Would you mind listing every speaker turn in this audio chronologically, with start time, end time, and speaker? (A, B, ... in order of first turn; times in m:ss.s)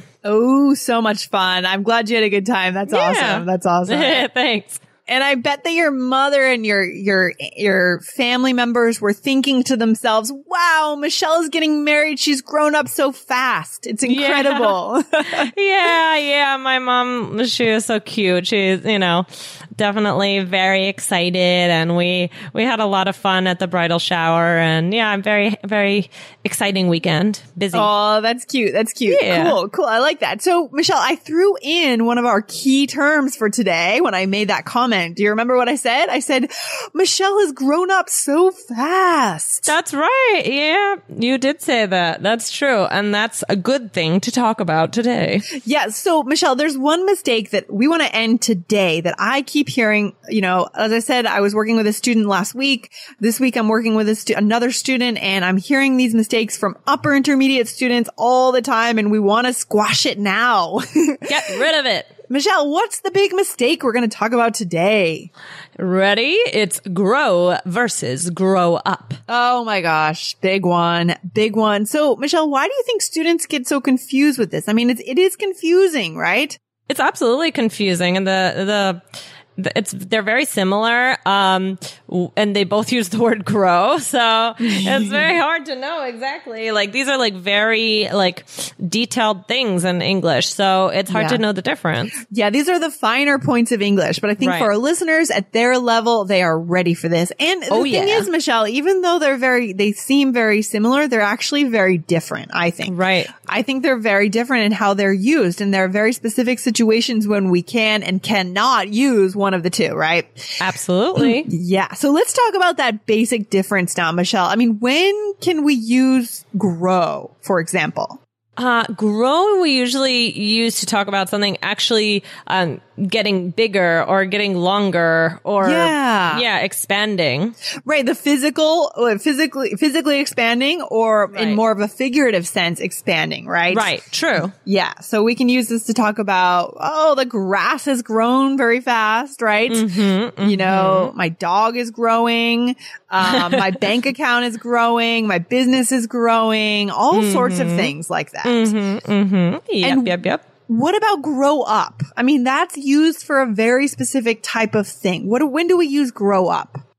0:00.2-0:04.2 A
0:02.9-0:04.8 B
0:05.1-0:15.5 A
0:14.0-0:14.8 B
0:15.5-0:27.9 B
0:27.7-0:39.7 A
0:29.1-0:29.6 B
0:39.7-0:45.5 B
0:45.6-1:01.2 A
1:01.2-1:02.1 B
1:02.3-1:05.3 A
1:05.8-1:09.2 B
1:09.3-1:16.6 A
1:16.9-1:19.0 B
1:19.6-1:32.2 B
1:24.6-1:25.3 A
1:31.1-1:31.4 A
1:32.3-1:42.9 A
1:34.4-1:34.7 B
1:37.7-1:38.3 B
1:42.8-1:43.3 B
1:43.5-1:50.6 A
1:50.6-1:51.5 B
1:51.2-1:58.2 A
1:58.6-2:07.6 B
2:05.6-2:06.4 A
2:07.9-2:13.9 A
2:11.3-2:11.6 B
2:13.7-2:14.5 B
2:14.6-2:19.9 A
2:19.7-2:21.1 B
2:20.4-2:28.7 A
2:23.2-2:23.8 B
2:27.1-2:27.9 B
2:28.4-2:30.4 B
2:29.8-2:36.8 A